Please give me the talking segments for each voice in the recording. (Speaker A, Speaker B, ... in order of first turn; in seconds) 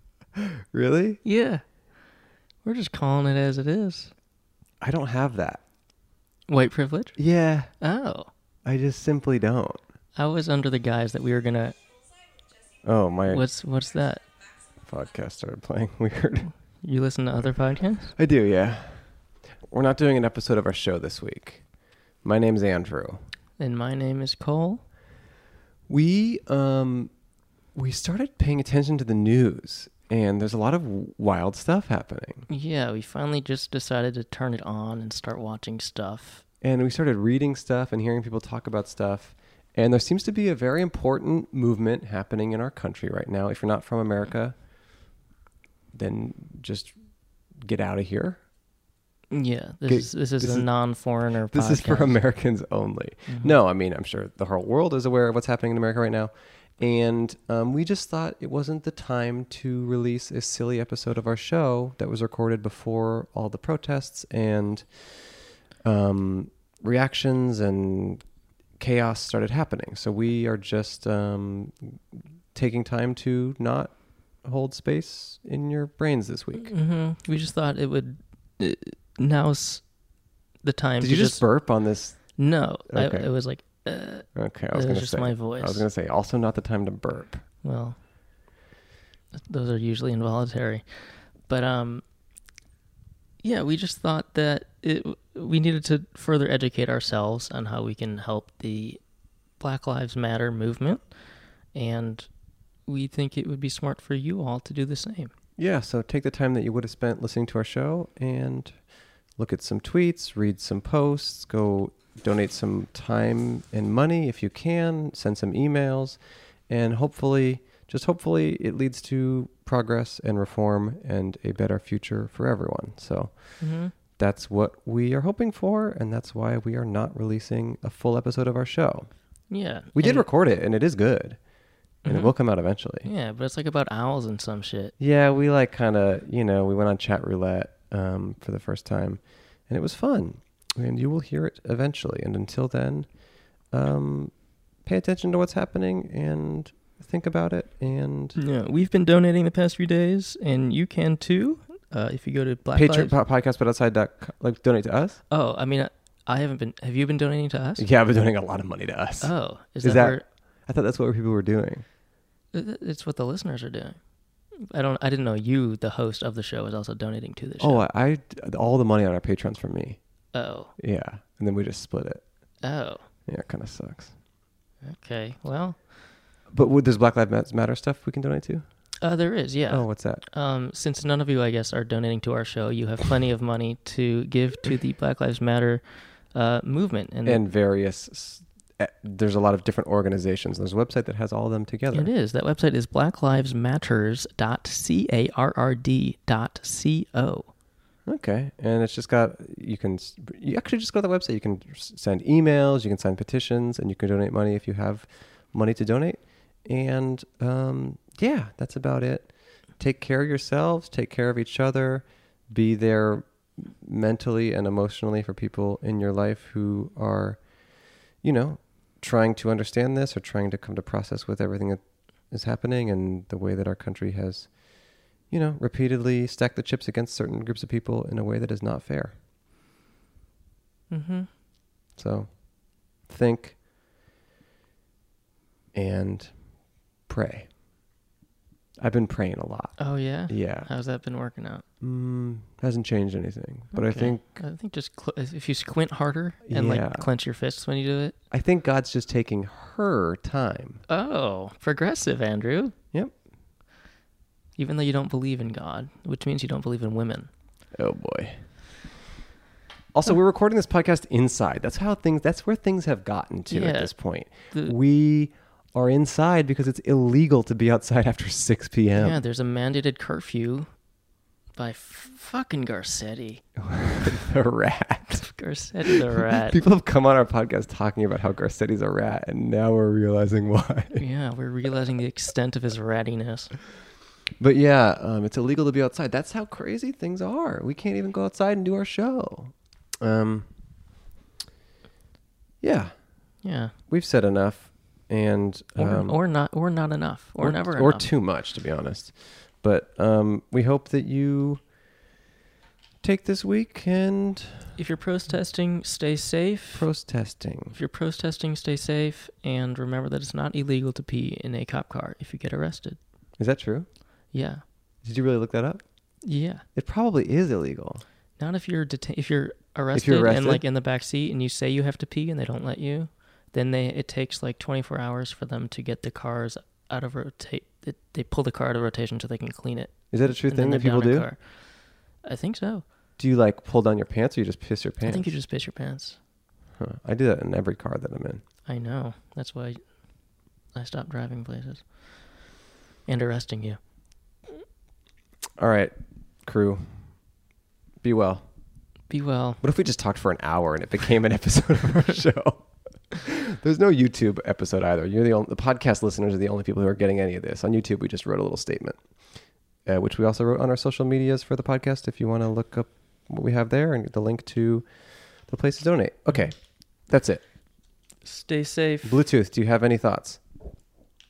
Speaker A: 0.4-1.2, 4.8-5.6, 7.2-7.7, 8.6-9.8, 12.8-13.5, 14.8-16.5, 18.1-21.6, 22.2-23.2, 25.9-27.1, 27.7-32.5, 36.6-44.5, 45.9-47.0, 47.5-48.4, 49.9-50.9, 51.5-68.2, 68.8-72.0, 72.5-76.7, 81.0-83.3, 84.3-87.4, 105.6-108.8, 109.4-129.1, 129.9-131.4, 132.0-133.1, 135.0-148.4, 152.7-155.2, 157.8-161.8, 167.6-170.0, 170.8-172.2, 173.3-174.1, 176.5-178.6, 179.7-180.2, 187.2-192.1, 198.1-229.1, 232.0-233.6, 235.7-236.4, 237.1-237.5, 238.8-240.7, 241.8-244.4, 246.4-247.1, 248.3-250.8, 257.7-258.4, 259.9-269.2, 273.6-281.0, 284.4-290.5, 292.6-293.1, 293.9-296.2, 297.4-301.6, 303.0-304.7, 306.7-307.8, 313.4-313.9, 315.0-315.8, 316.7-318.0, 319.9-320.6, 330.1-331.3, 333.2-335.3, 336.8-338.4, 345.6-345.9, 346.4-347.0, 348.0-348.4, 349.6-359.0, 359.9-366.6, 367.1-367.4, 369.0-370.4
Speaker B: 1.2-1.6, 2.6-4.1, 6.5-7.2, 7.8-8.3, 10.2-11.8, 13.3-14.2, 16.8-18.1, 23.6-24.8, 32.5-36.4, 49.3-52.1, 53.3-53.5, 76.6-79.9, 80.6-81.5, 82.3-85.9, 87.6-88.0, 89.3-92.0, 93.4-99.0, 99.6-101.1, 101.7-102.3, 102.8-105.3, 123.6-123.9, 129.5-130.2, 132.0-132.3, 133.0-134.9, 148.3-153.2, 155.3-157.8, 159.2-160.2, 162.5-164.0, 164.6-167.8, 170.3-170.7, 172.6-173.0, 174.8-175.8, 179.0-187.4, 191.9-197.5, 230.9-231.3, 239.8-241.6, 243.7-248.1, 250.9-252.7, 254.6-257.3, 263.5-264.7, 268.9-270.7, 271.6-273.4, 275.2-276.6, 281.0-283.5, 293.4-293.7, 295.8-298.1, 304.8-306.9, 307.7-313.0, 314.3-314.6, 316.2-316.6, 318.4-332.8, 335.0-336.2, 338.6-339.9, 340.7-341.9, 343.1-343.8, 349.1-349.6, 368.2-369.2